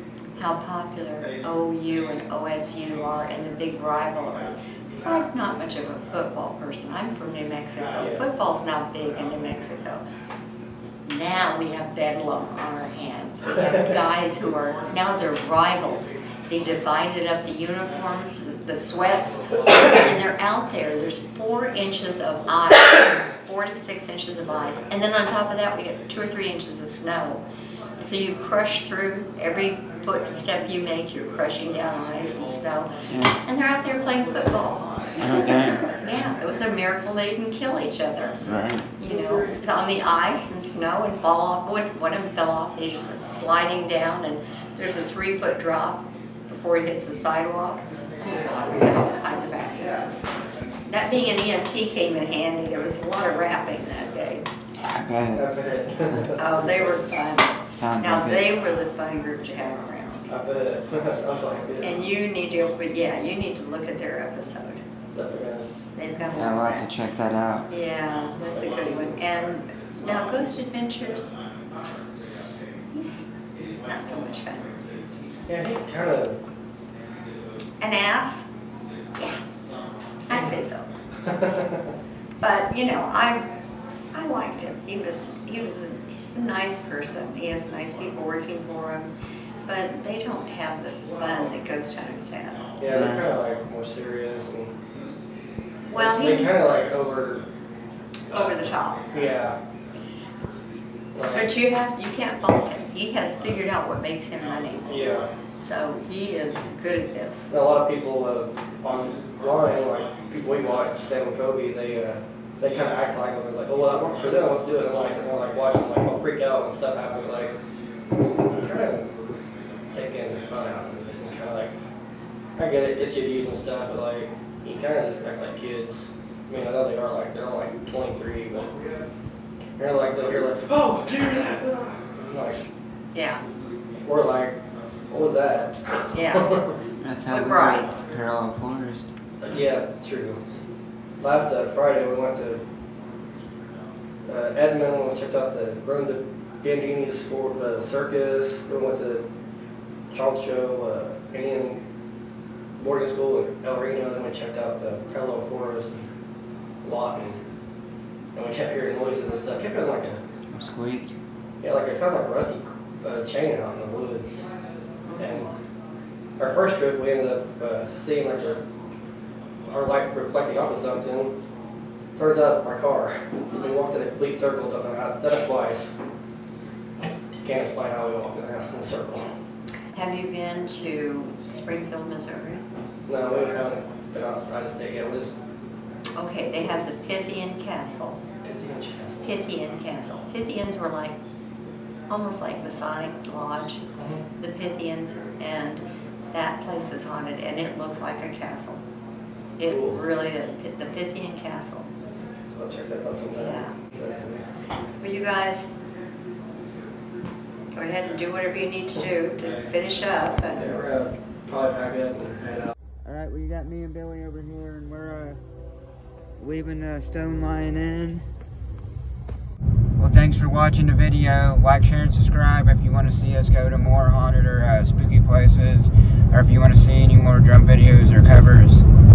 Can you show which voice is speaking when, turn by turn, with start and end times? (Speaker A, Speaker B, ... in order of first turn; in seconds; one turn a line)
Speaker A: 0.4-10.0
Speaker B: 8.0-8.2
Speaker A: 11.0-27.4
Speaker A: 28.0-38.4
Speaker C: 33.1-33.4
Speaker C: 35.2-35.9
Speaker C: 38.4-38.9
Speaker A: 39.0-50.2
Speaker A: 50.9-54.4
Speaker C: 54.8-55.5
Speaker B: 55.3-56.6
Speaker A: 56.4-60.3
Speaker C: 57.7-58.5
Speaker B: 60.3-62.0
Speaker A: 61.8-64.8
Speaker B: 65.1-65.9
Speaker A: 66.0-66.8
Speaker C: 66.3-67.7
Speaker A: 67.7-71.4
Speaker B: 68.5-69.2
Speaker A: 72.9-73.3
Speaker A: 73.8-75.0
Speaker B: 75.5-76.4
Speaker A: 77.8-78.5
Speaker A: 79.2-79.4
Speaker A: 80.3-80.9
Speaker B: 81.2-81.9
Speaker A: 82.4-83.4
Speaker A: 84.1-89.1
Speaker A: 89.7-92.7
Speaker B: 92.8-94.7
Speaker C: 92.9-93.3
Speaker A: 95.9-96.5
Speaker B: 95.9-97.4
Speaker A: 98.3-99.1
Speaker B: 99.1-99.6
Speaker B: 101.1-101.5
Speaker A: 101.3-105.1
Speaker B: 104.9-105.3
Speaker A: 105.6-107.5
Speaker B: 107.5-117.5
Speaker B: 118.4-119.1
Speaker B: 119.9-121.8
Speaker B: 122.6-128.9
Speaker B: 129.8-132.6
Speaker A: 133.1-133.4
Speaker B: 134.0-136.8
Speaker A: 136.1-136.6
Speaker C: 137.0-139.1
Speaker A: 137.3-137.9
Speaker B: 139.4-140.4
Speaker B: 141.2-142.6
Speaker B: 144.2-149.2
Speaker B: 150.1-151.8
Speaker B: 152.8-156.1
Speaker B: 156.8-157.4
Speaker B: 158.3-160.2
Speaker C: 160.5-161.1
Speaker B: 161.6-164.4
Speaker A: 165.1-165.5
Speaker B: 165.2-165.5
Speaker B: 166.4-168.6
Speaker B: 169.6-171.3
Speaker B: 172.1-175.9
Speaker B: 177.3-179.3
Speaker A: 179.9-182.6
Speaker B: 183.1-185.3
Speaker A: 186.2-188.2
Speaker B: 188.4-189.4
Speaker A: 189.2-191.2
Speaker A: 192.1-193.8
Speaker B: 194.0-194.2
Speaker A: 194.4-198.8
Speaker A: 199.6-201.9
Speaker B: 199.7-200.0
Speaker B: 202.3-204.4
Speaker A: 203.3-203.7
Speaker A: 205.0-205.7
Speaker A: 207.7-211.1
Speaker B: 210.6-212.7
Speaker C: 213.0-215.4
Speaker C: 216.4-218.2
Speaker C: 220.0-228.8